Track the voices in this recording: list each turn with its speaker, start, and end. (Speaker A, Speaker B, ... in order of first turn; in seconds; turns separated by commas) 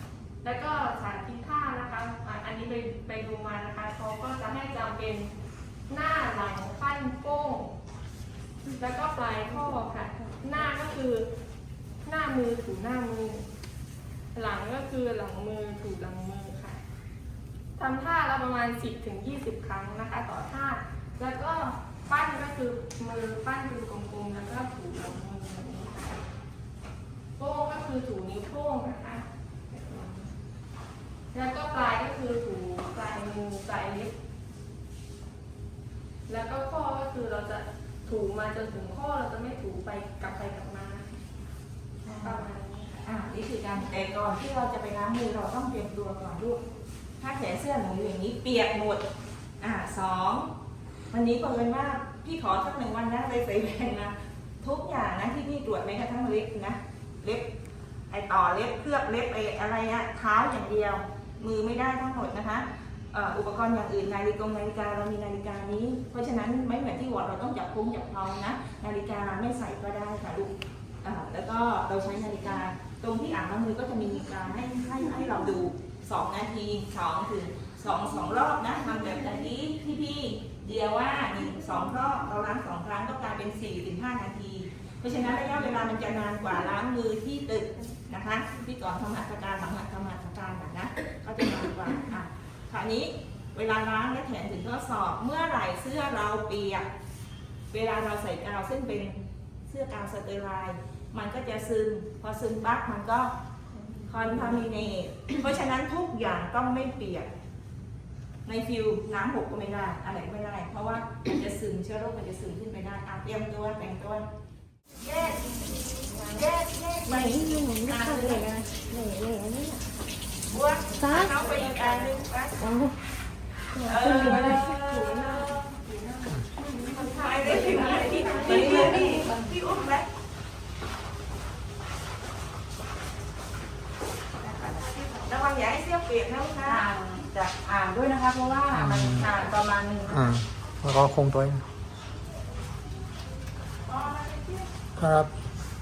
Speaker A: 0.4-5.3, Speaker A: 5.9-7.8, Speaker A: 8.8-11.3, Speaker A: 12.0-13.5, Speaker A: 14.3-16.8, Speaker A: 17.8-26.2, Speaker A: 27.4-30.3, Speaker A: 31.3-34.1, Speaker A: 36.3-41.1, Speaker B: 42.0-42.4, Speaker A: 42.2-43.0, Speaker B: 43.0-46.6, Speaker B: 47.2-49.0, Speaker B: 49.6-50.5, Speaker B: 51.1-57.5, Speaker B: 58.1-96.9, Speaker B: 97.7-103.3, Speaker B: 104.1-107.3, Speaker B: 108.5-114.2, Speaker B: 115.0-118.5, Speaker C: 117.0-119.8, Speaker B: 120.5-122.7, Speaker C: 120.9-121.5, Speaker C: 122.6-123.0, Speaker C: 123.7-124.7, Speaker B: 123.8-125.6, Speaker A: 123.9-129.2, Speaker B: 126.8-130.1, Speaker D: 127.6-129.5, Speaker C: 128.6-129.2, Speaker D: 134.4-134.8, Speaker B: 134.8-136.9, Speaker D: 136.6-140.2, Speaker E: 138.7-139.3, Speaker E: 140.1-141.6, Speaker B: 143.8-144.7, Speaker E: 145.0-145.3